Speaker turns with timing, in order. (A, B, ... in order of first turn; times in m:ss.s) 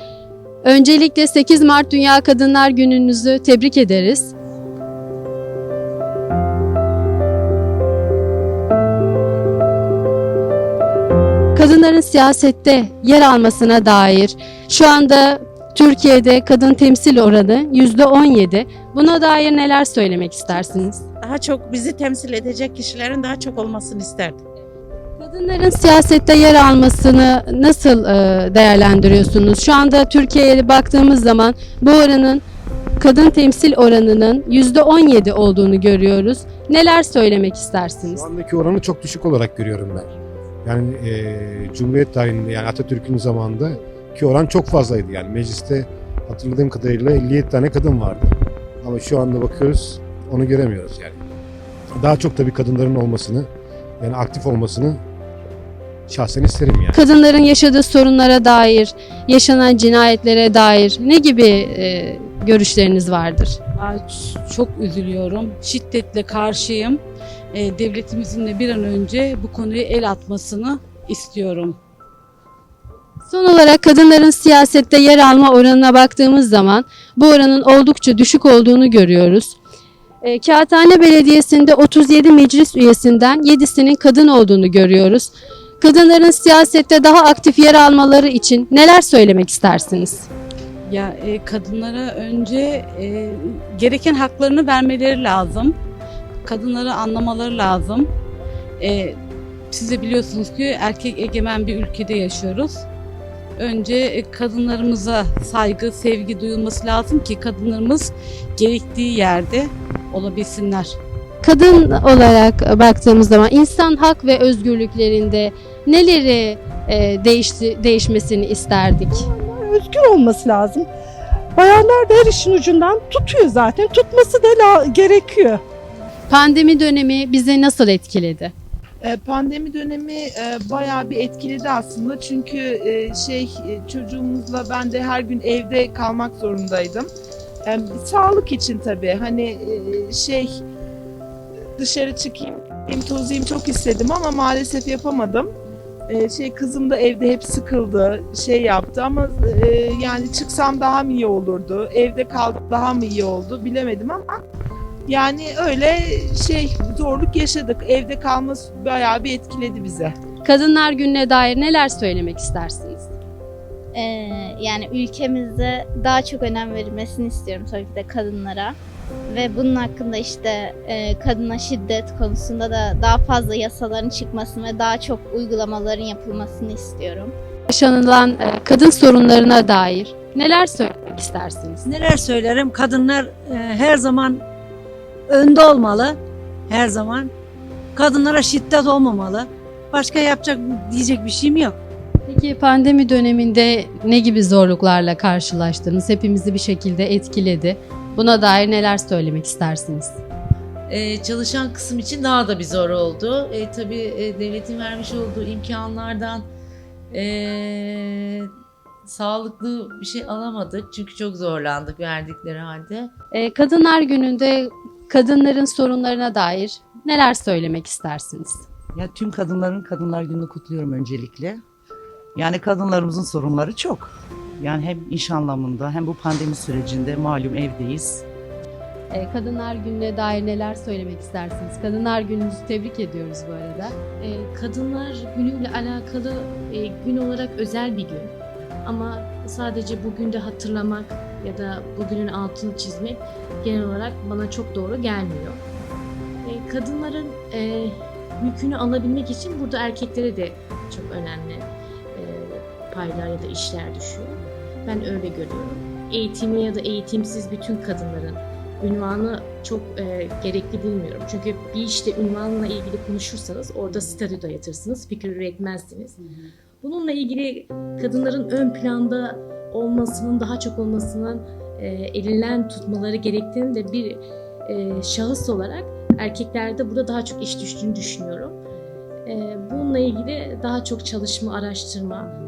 0:00.6-0:04.3 A
0:11.5-0:21.0 A
0:21.2-0:24.4 B
0:25.2-0:32.4 A
0:33.0-0:38.2 A
0:38.1-0:40.1 C
0:40.6-0:48.3 C
0:48.8-0:51.2 C
0:51.9-0:53.5 C
0:54.0-0:55.0 C
0:56.1-0:57.0 C
0:56.9-1:03.6 A
1:03.8-1:07.0 D
1:07.5-1:11.8 D
1:13.2-1:19.6 A
1:20.2-1:30.3 A
1:30.8-1:35.7 D
1:36.4-1:38.1 D
1:38.8-1:39.2 D
1:39.7-1:42.8 D
1:43.6-1:51.0 D
1:51.4-1:59.3 A
1:59.1-2:00.9 E
2:01.5-2:05.6 E
2:06.3-2:08.5 A
2:09.0-2:17.1 F
2:17.6-2:20.5 F
2:21.8-2:25.5 F
2:26.1-2:34.4 F
2:35.1-2:40.1 F
2:40.4-2:43.1 A
2:43.9-2:48.7 G
2:49.3-2:57.3 G
2:57.7-3:01.8 A
3:01.8-3:04.4 H
3:05.3-3:07.3 H
3:07.9-3:11.8 H
3:12.3-3:20.2 A
3:20.9-3:26.5 I
3:27.1-3:28.5 I
3:29.0-3:33.1 I
3:33.3-3:38.6 A
3:38.9-3:41.6 J
3:42.3-3:48.2 J
3:49.1-3:54.0 A
3:54.2-4:05.6 K
4:06.4-4:26.2 K
4:26.8-4:38.6 K
4:39.2-4:42.3 K